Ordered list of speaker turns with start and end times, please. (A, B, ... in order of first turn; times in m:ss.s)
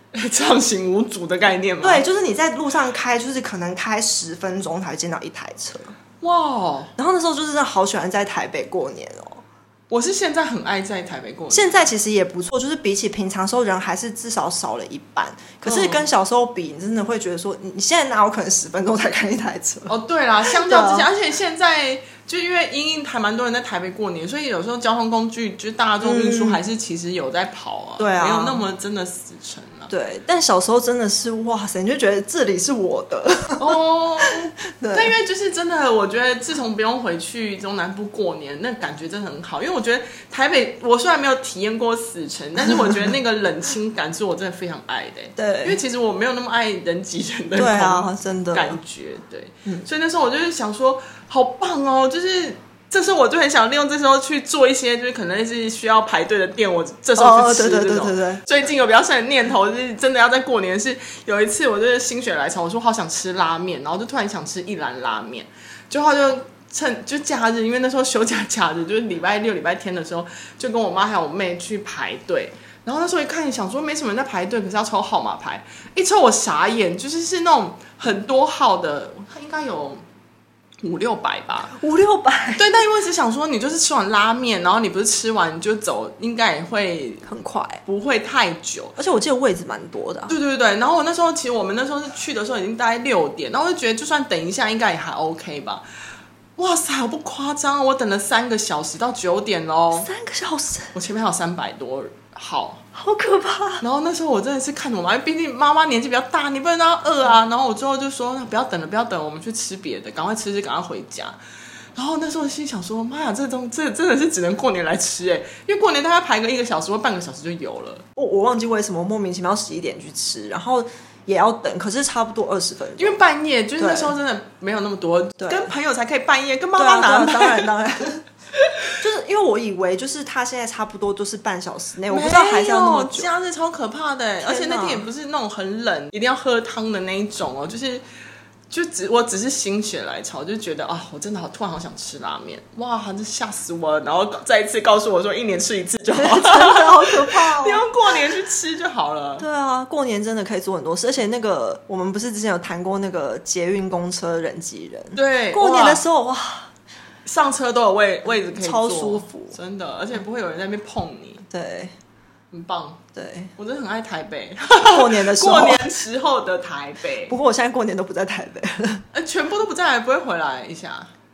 0:00.1-0:02.0 A
0:01.8-0:05.9 B
0:06.2-0:06.9 A
0:07.0-0:09.4 B
0:09.9-0:11.8 A
0:11.5-0:19.9 B
0:15.6-0:16.1 A
0:19.9-0:29.9 A
0:20.5-0:21.1 B
0:26.0-0:26.6 B
0:28.0-0:28.6 B
0:29.9-0:35.1 B
0:33.6-1:20.0 A
0:42.7-0:43.1 B
0:45.4-0:45.8 B
0:47.6-0:48.8 B
0:57.2-0:58.4 B
1:20.8-1:21.8 A
1:21.7-1:22.6 B
1:22.6-1:27.2 A
1:27.2-1:27.8 B
1:27.9-1:29.0 A
1:29.0-1:30.3 B
1:30.3-1:35.8 A
1:36.6-1:40.1 A
1:40.0-1:40.9 B
1:40.9-1:42.8 A
1:42.9-1:43.8 B
1:43.8-1:51.4 A
1:52.0-1:58.0 A
1:58.2-2:03.2 B
2:03.0-2:07.7 A
2:03.8-2:04.1 B
2:05.4-2:05.7 B
2:06.8-2:08.2 B
2:08.6-2:08.9 A
2:09.0-2:13.3 B
2:12.1-2:18.0 A
2:14.4-2:15.1 B
2:18.7-2:29.5 A
2:26.2-2:27.8 B
2:29.4-2:36.7 B
2:35.2-2:36.0 A
2:37.3-2:41.4 A
2:38.3-2:39.6 B
2:41.5-2:41.9 B
2:42.5-2:43.0 A
2:43.2-2:43.5 B
2:43.6-2:47.4 A
2:44.9-2:45.9 B
2:47.3-2:49.0 B
2:49.1-2:51.1 A